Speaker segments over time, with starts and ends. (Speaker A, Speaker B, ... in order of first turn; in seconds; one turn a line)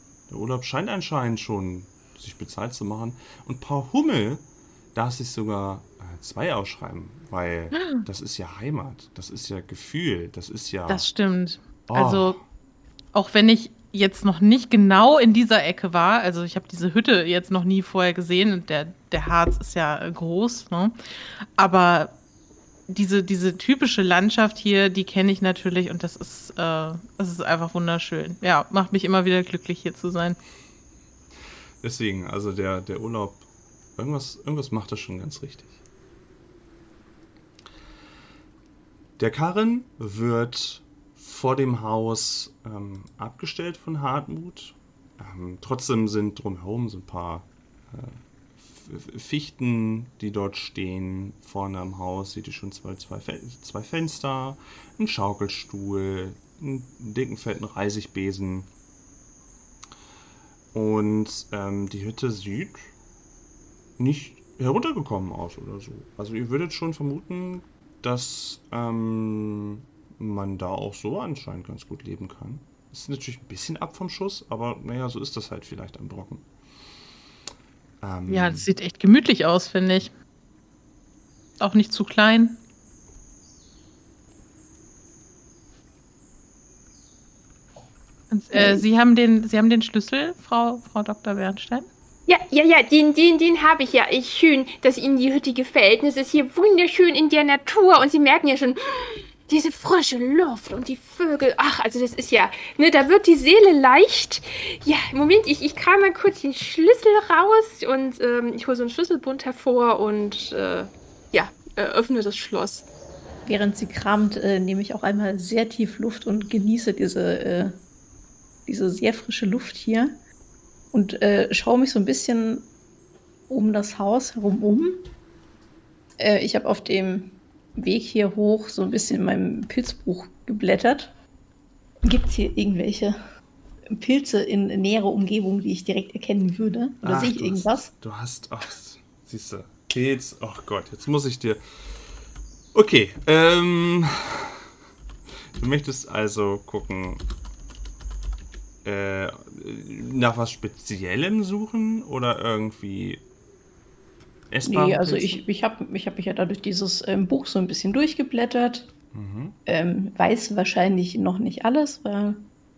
Speaker A: 0.3-4.4
Speaker A: 4.9-11.1
Speaker B: 7.7-8.1
Speaker B: 10.9-12.4
Speaker A: 11.9-12.4
Speaker B: 13.1-20.9
Speaker B: 21.6-22.1
Speaker B: 22.9-30.4
Speaker A: 31.8-33.4
Speaker A: 34.0-35.8
Speaker A: 39.2-58.7
Speaker A: 60.7-62.9
Speaker A: 64.0-76.4
Speaker A: 78.0-78.7
Speaker B: 78.3-80.1
Speaker B: 81.6-82.6
Speaker B: 88.3-91.9
Speaker C: 88.5-88.8
Speaker D: 92.3-112.9
Speaker C: 113.4-117.8
Speaker C: 118.7-120.2
Speaker C: 120.9-122.7
Speaker C: 123.5-125.1
Speaker C: 126.2-131.1
Speaker C: 132.0-133.2
Speaker C: 133.9-137.9
Speaker A: 137.0-141.9
Speaker A: 142.7-144.6
Speaker A: 145.5-147.2
Speaker A: 148.8-153.2
Speaker A: 154.5-155.4
Speaker C: 154.6-158.9
Speaker A: 159.1-159.6
Speaker C: 159.7-162.5